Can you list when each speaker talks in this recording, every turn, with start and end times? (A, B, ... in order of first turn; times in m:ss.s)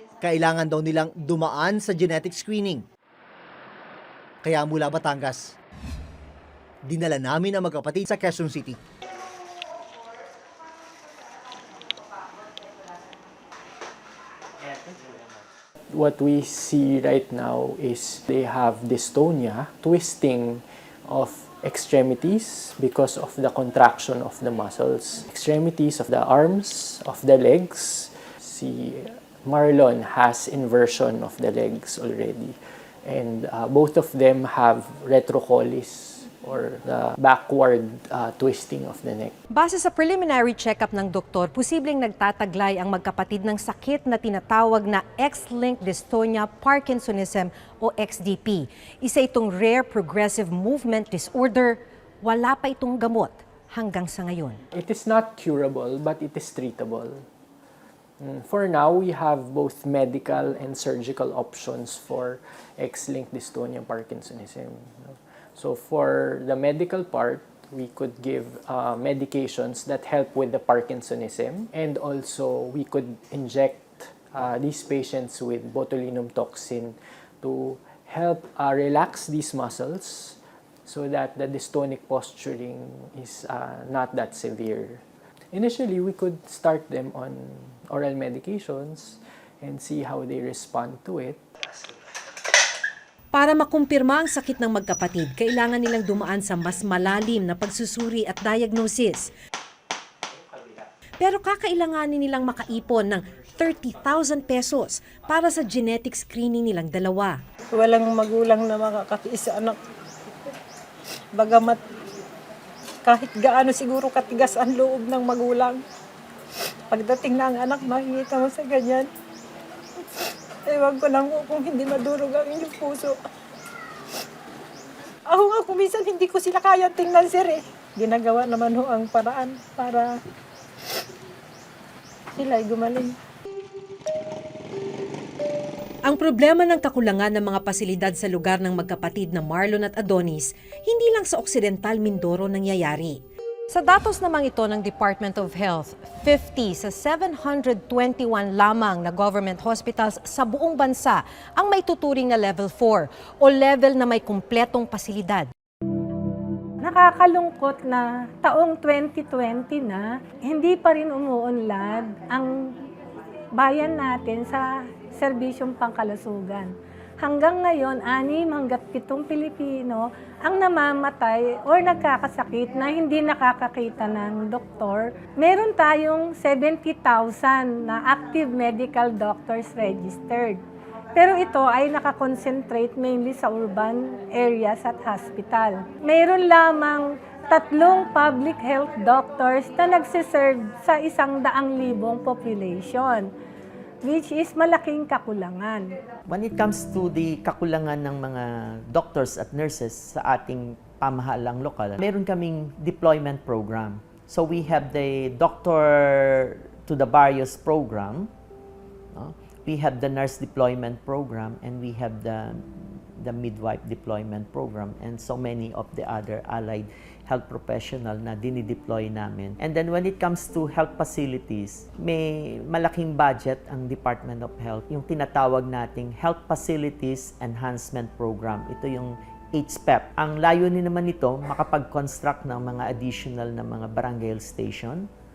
0:00.2-0:02.8 A
0:04.4-0:05.5 A
0:06.8-0:08.8 A
0:15.9-0:39.4 B
0:39.5-0:54.6 C
0:54.7-0:57.2 B
0:58.2-1:25.0 B
1:25.5-1:31.4 B
1:33.3-1:39.3 C
1:41.2-1:47.4 C
1:47.7-1:49.8 D
1:51.3-1:52.0 D
1:53.0-1:55.8 D
1:56.9-1:59.1 D
2:00.7-2:03.2 D
2:05.3-2:10.1 D
2:12.3-2:13.2 D
2:16.0-2:35.5 C
2:36.8-2:42.8 E
2:43.6-3:00.6 E
3:01.2-3:13.3 E
3:14.0-3:15.9 E
3:16.3-3:28.3 F
3:29.1-3:55.1 F